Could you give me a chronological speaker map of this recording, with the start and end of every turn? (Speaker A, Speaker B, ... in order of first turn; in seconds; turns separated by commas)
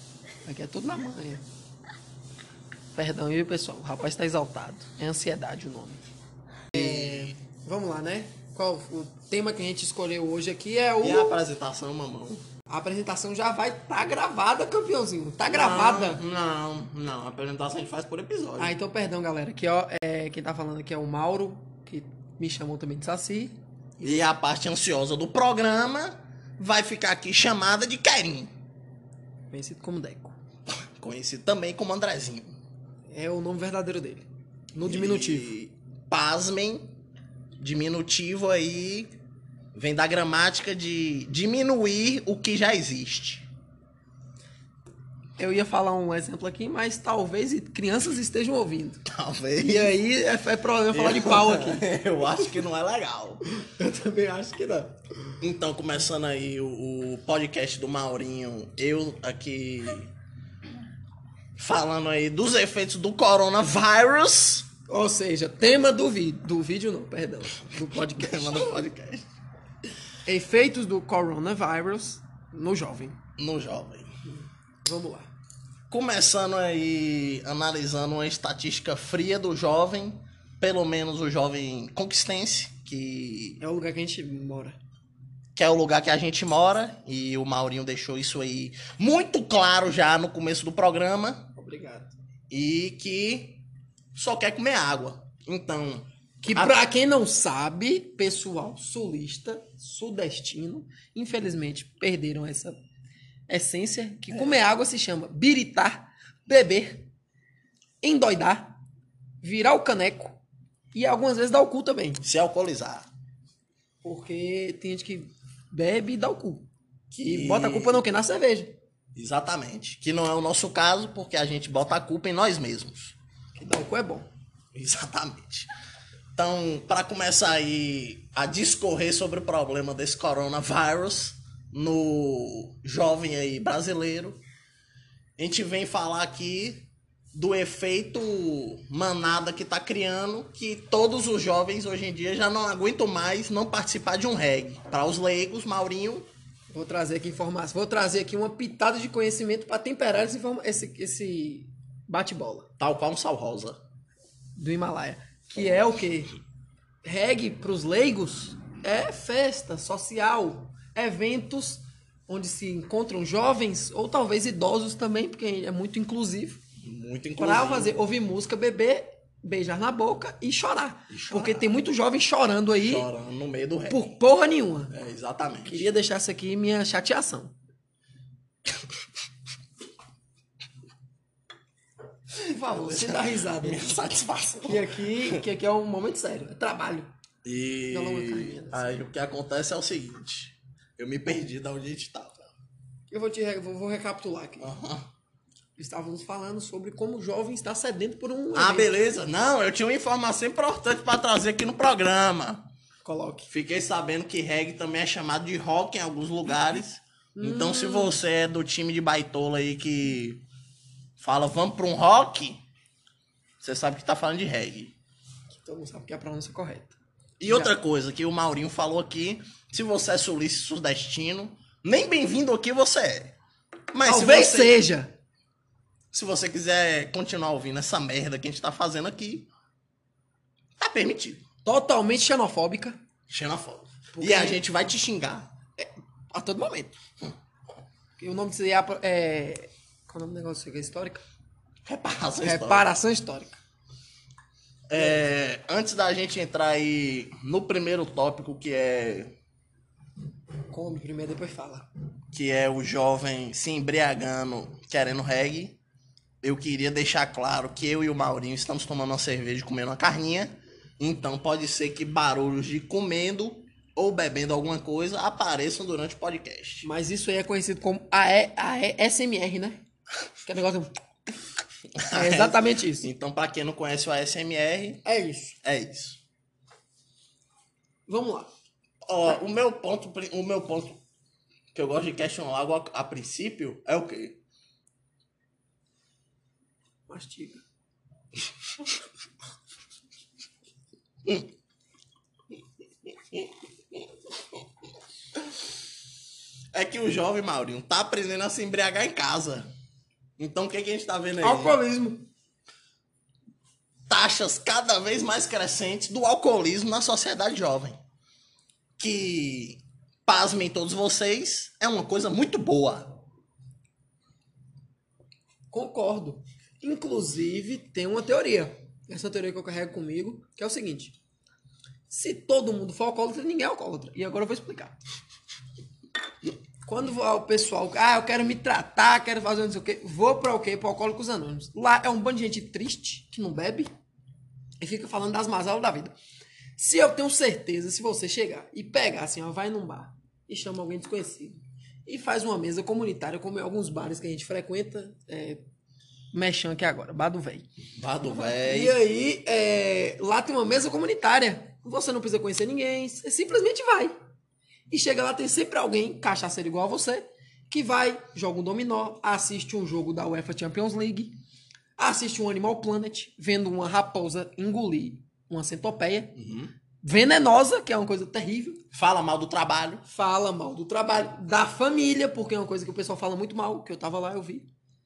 Speaker A: 0.5-1.4, Speaker A: 3.0-6.0, Speaker B: 6.7-7.3, Speaker A: 6.7-11.4, Speaker B: 11.0-12.4, Speaker A: 12.7-16.2, Speaker B: 15.5-18.7, Speaker A: 18.6-23.6, Speaker B: 24.0-28.5, Speaker A: 29.5-30.4, Speaker B: 30.9-32.6, Speaker A: 33.1-35.5, Speaker B: 34.8-36.9, Speaker B: 37.6-39.1, Speaker B: 39.7-43.5, Speaker A: 45.4-49.0, Speaker B: 49.0-49.9, Speaker A: 49.6-51.9, Speaker B: 50.9-53.4, Speaker A: 53.5-55.0, Speaker B: 55.4-60.1, Speaker B: 61.6-64.7, Speaker A: 64.8-68.7, Speaker B: 67.8-69.3, Speaker A: 70.2-73.2, Speaker B: 73.4-74.1, Speaker A: 74.8-75.3, Speaker B: 75.9-83.6, Speaker A: 83.6-84.8, Speaker B: 85.5-91.5, Speaker A: 91.6-92.1, Speaker B: 92.5-93.6, Speaker B: 94.2-96.8, Speaker A: 96.4-102.8, Speaker A: 103.5-107.1, Speaker A: 108.0-108.8, Speaker A: 109.4-110.4, Speaker A: 110.9-112.2, Speaker B: 112.2-113.1, Speaker A: 114.0-116.7, Speaker B: 117.1-118.0, Speaker A: 117.2-118.8, Speaker B: 119.1-123.2, Speaker A: 123.5-124.3, Speaker B: 124.7-125.7, Speaker B: 126.3-134.4, Speaker B: 135.4-146.2, Speaker A: 146.7-152.7, Speaker B: 152.8-153.8, Speaker A: 154.6-156.3, Speaker A: 157.0-166.6, Speaker B: 166.8-167.9, Speaker A: 167.3-173.1, Speaker B: 171.1-171.7, Speaker B: 172.8-174.2, Speaker A: 173.9-174.9, Speaker B: 174.9-175.9, Speaker A: 175.6-177.5, Speaker A: 182.4-183.9, Speaker B: 182.5-185.4, Speaker A: 184.6-187.1, Speaker B: 187.4-192.5, Speaker A: 187.9-189.0, Speaker A: 193.1-194.7, Speaker B: 194.6-195.1, Speaker A: 195.8-198.9, Speaker B: 198.5-202.7, Speaker A: 203.0-203.5, Speaker B: 203.5-210.4, Speaker A: 207.3-208.2, Speaker B: 211.2-212.6, Speaker B: 213.6-214.9, Speaker A: 215.5-217.7, Speaker B: 217.4-223.3, Speaker B: 223.9-224.8, Speaker A: 224.0-225.1, Speaker B: 226.1-229.5, Speaker B: 230.8-231.4, Speaker A: 231.6-233.0, Speaker B: 233.3-235.5, Speaker A: 234.1-234.7, Speaker A: 235.8-236.9, Speaker A: 238.2-241.2, Speaker B: 241.8-242.8, Speaker A: 242.4-243.6, Speaker B: 244.9-249.3, Speaker A: 250.7-251.9, Speaker B: 252.3-255.8, Speaker B: 256.4-266.9, Speaker A: 266.8-269.8, Speaker A: 270.4-270.9, Speaker B: 272.0-275.0, Speaker A: 272.1-273.1, Speaker A: 275.1-275.6, Speaker B: 275.6-276.2, Speaker A: 278.1-278.5, Speaker B: 279.1-281.0, Speaker B: 281.7-284.4, Speaker A: 287.1-287.6, Speaker B: 293.1-294.0, Speaker B: 296.7-299.7, Speaker B: 300.4-301.8, Speaker A: 301.4-302.2, Speaker B: 304.1-308.0, Speaker B: 309.0-313.1, Speaker A: 315.7-321.2, Speaker A: 322.1-325.0, Speaker A: 326.9-333.9, Speaker A: 334.8-336.1, Speaker A: 336.8-345.6, Speaker A: 346.3-347.7, Speaker B: 348.0-349.0, Speaker A: 348.2-354.1, Speaker A: 354.9-361.4, Speaker A: 362.0-366.4, Speaker B: 366.4-366.7, Speaker A: 367.0-368.8, Speaker B: 368.9-370.0, Speaker A: 370.1-374.7